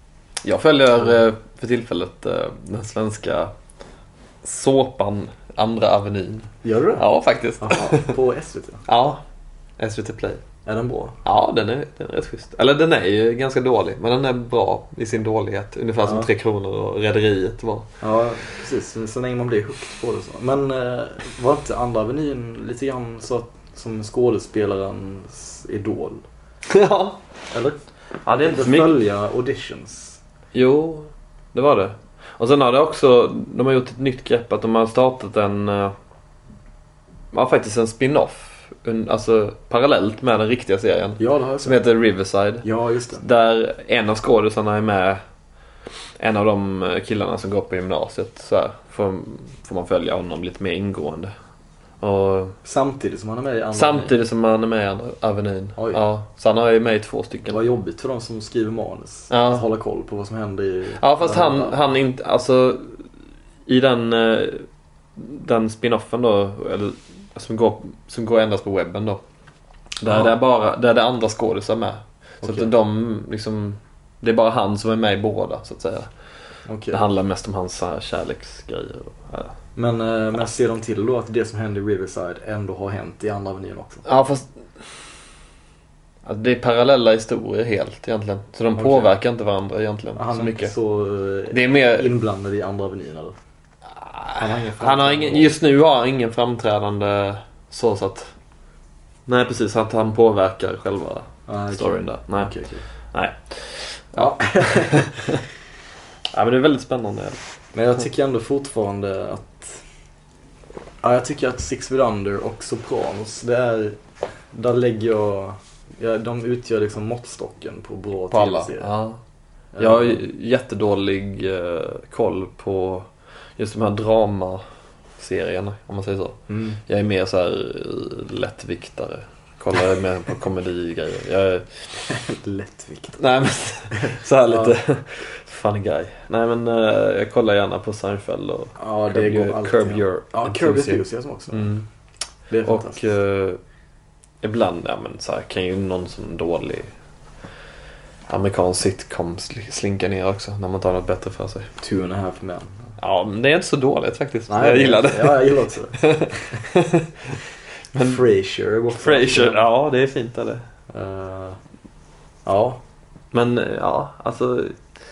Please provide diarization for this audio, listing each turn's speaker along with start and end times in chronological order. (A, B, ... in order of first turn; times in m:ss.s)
0:00.4-0:03.5 A
0:04.4-0:08.1 A
0:06.6-0:07.0 B
0:07.6-0:08.8 B
0:08.9-0:09.2 A
0:09.8-0:10.4 A
0:10.7-0:11.2 B
0:11.2-0:17.9 A
0:16.0-0:16.3 B
0:18.0-0:26.2 B
0:26.7-0:27.2 A
0:27.5-0:30.2 B
0:28.3-0:29.0 A
0:30.5-0:35.9 A
0:37.3-0:45.2 A
0:41.2-0:41.8 B
0:42.6-0:43.2 B
0:46.2-0:51.3 A
0:52.0-0:52.6 A
0:52.6-0:54.2 B
0:53.7-0:57.6 A
0:55.8-0:56.0 B
0:57.5-1:01.8 B
0:59.3-0:59.6 A
1:01.0-1:03.0 A
1:03.7-1:04.6 A
1:05.2-1:09.2 A
1:10.0-1:16.1 A
1:12.4-1:12.7 B
1:16.7-1:17.0 B
1:16.9-1:19.5 A
1:19.8-1:24.0 B
1:24.0-1:24.5 A
1:26.2-1:30.7 A
1:28.8-1:29.2 B
1:30.2-1:33.4 B
1:31.5-1:32.1 A
1:34.0-1:38.3 A
1:34.4-1:35.6 B
1:39.3-1:42.5 A
1:41.5-1:42.8 B
1:43.1-1:45.4 A
1:44.1-1:45.2 B
1:46.3-1:47.4 A
1:47.7-1:49.8 B
1:51.0-1:58.9 B
1:58.3-1:59.2 A
1:59.8-2:00.2 B
1:59.8-2:04.6 A
2:05.2-2:11.7 A
2:06.5-2:06.8 B
2:12.1-2:13.2 B
2:13.2-2:21.9 A
2:13.9-2:14.8 B
2:18.8-2:21.7 B
2:22.5-2:23.1 B
2:22.6-2:23.6 A
2:24.4-2:26.9 A
2:28.3-2:31.7 A
2:31.8-2:32.8 B
2:33.0-2:37.4 A
2:34.5-2:36.6 B
2:37.9-2:38.2 A
2:38.0-2:39.6 B
2:39.0-2:40.6 A
2:40.9-2:41.6 B
2:42.5-2:42.8 B
2:43.3-2:44.8 A